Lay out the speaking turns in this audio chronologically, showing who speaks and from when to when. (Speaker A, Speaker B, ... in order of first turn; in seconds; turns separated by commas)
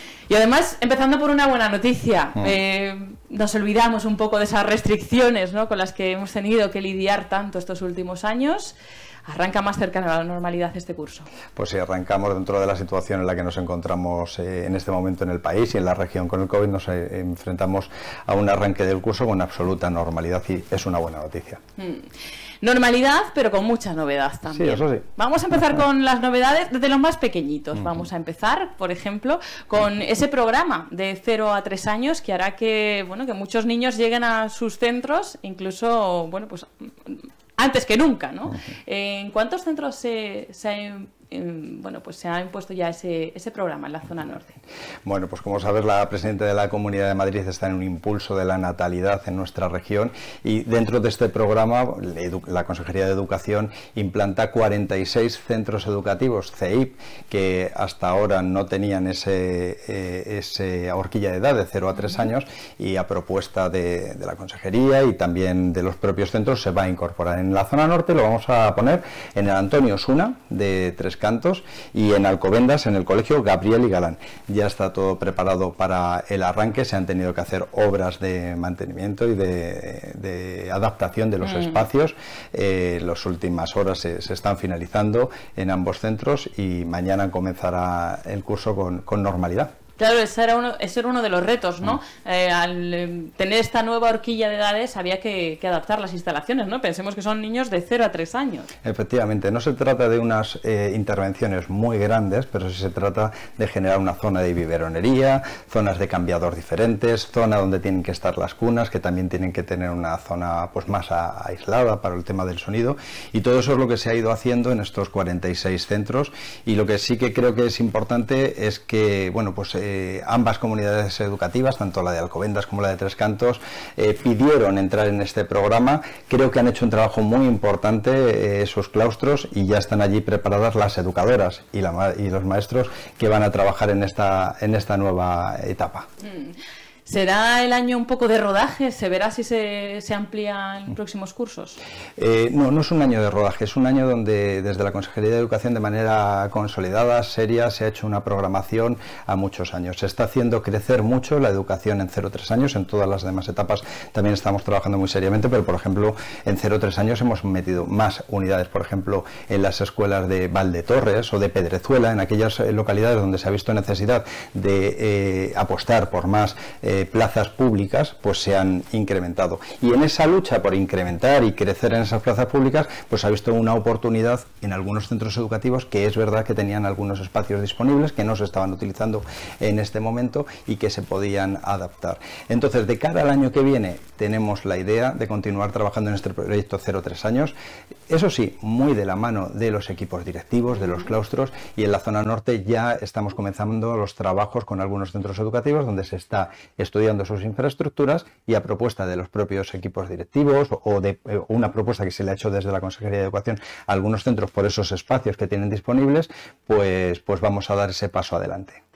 Speaker A: 0.3-8.8, Speaker A: 9.3-11.3, Speaker B: 11.6-21.6, Speaker A: 21.8-22.1, Speaker A: 22.6-44.6, Speaker B: 24.5-25.0, Speaker B: 45.0-89.7, Speaker A: 90.0-98.7, Speaker B: 98.8-136.1, Speaker A: 136.2-136.5, Speaker A: 137.1-141.8, Speaker B: 142.2-187.5, Speaker B: 188.1-208.8